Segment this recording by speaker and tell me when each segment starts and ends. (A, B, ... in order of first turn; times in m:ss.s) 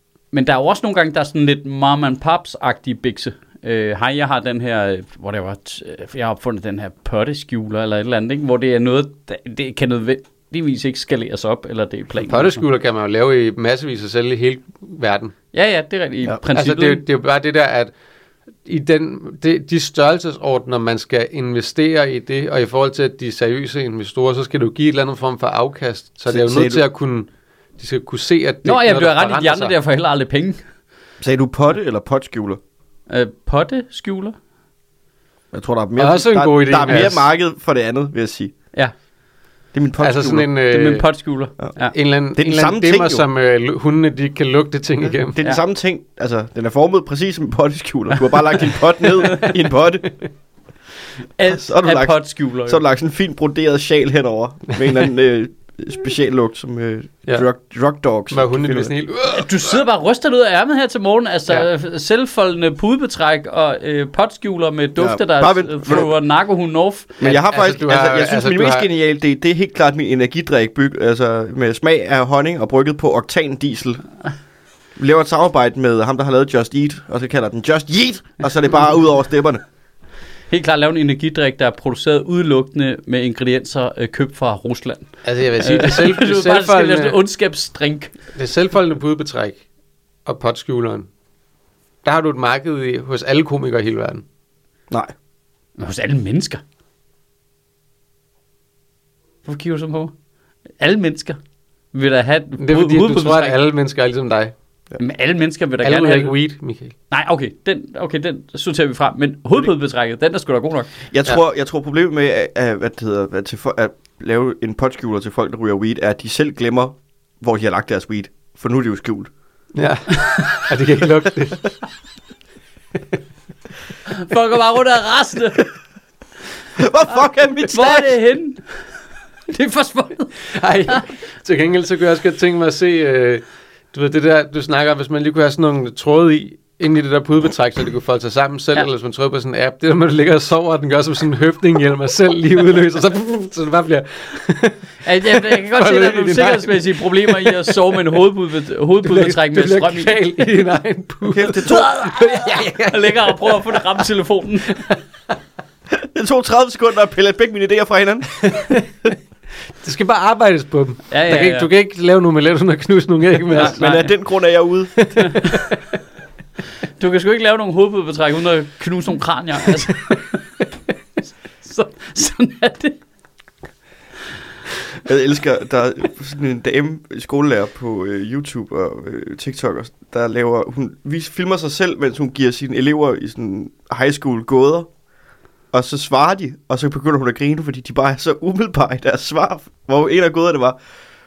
0:00.3-0:12.6 A
0:12.2-0:15.4 B
0:15.5-0:17.0 A
0:16.5-0:17.9 B
0:18.6-0:29.7 B
0:26.3-0:26.8 C
0:28.6-0:30.6 A
0:31.2-0:32.6 C
0:33.1-0:34.4 A
0:35.5-0:38.5 C
0:36.0-0:37.3 B
0:39.7-0:40.5 C
0:40.0-0:41.1 B
0:40.7-0:41.9 A
0:41.9-0:45.4 B
0:42.4-0:43.2 C
0:45.2-0:50.1 C
0:49.2-0:49.5 B
0:51.4-0:52.8 A
0:51.5-0:58.9 C
0:58.3-0:59.8 B
0:59.3-1:07.2 A
1:05.0-1:06.1 C
1:07.2-1:14.0 C
1:07.2-1:08.9 B
1:15.0-1:19.6 C
1:20.5-1:28.1 A
1:25.2-1:27.2 B
1:28.4-1:29.6 B
1:30.3-1:31.1 B
1:32.0-1:34.2 B
1:35.8-1:36.6 A
1:39.4-1:40.1 A
1:40.8-1:41.4 A
1:41.9-1:43.6 A
1:42.6-1:44.5 B
1:45.0-1:46.3 A
1:45.8-1:46.9 B
1:47.1-1:50.9 A
1:51.1-1:59.3 C
1:59.7-2:01.7 B
2:00.3-2:00.7 A
2:04.1-2:05.7 A
2:06.8-2:08.1 C
2:07.7-2:08.8 A
2:09.5-2:11.0 A
2:10.5-2:28.1 B
2:25.0-2:30.2 A
2:29.0-2:34.1 B
2:31.3-2:31.9 C
2:31.6-2:34.8 A
2:34.7-2:35.0 B
2:35.9-2:38.6 C
2:38.4-2:39.1 B
2:39.8-2:43.8 B
2:41.1-2:41.7 A
2:43.6-2:44.1 A
2:43.6-2:45.2 C
2:45.1-2:45.8 B
2:45.2-2:45.6 A
2:47.0-2:50.4 A
2:51.6-2:53.0 A
2:55.0-3:04.9 C
3:05.7-3:10.8 C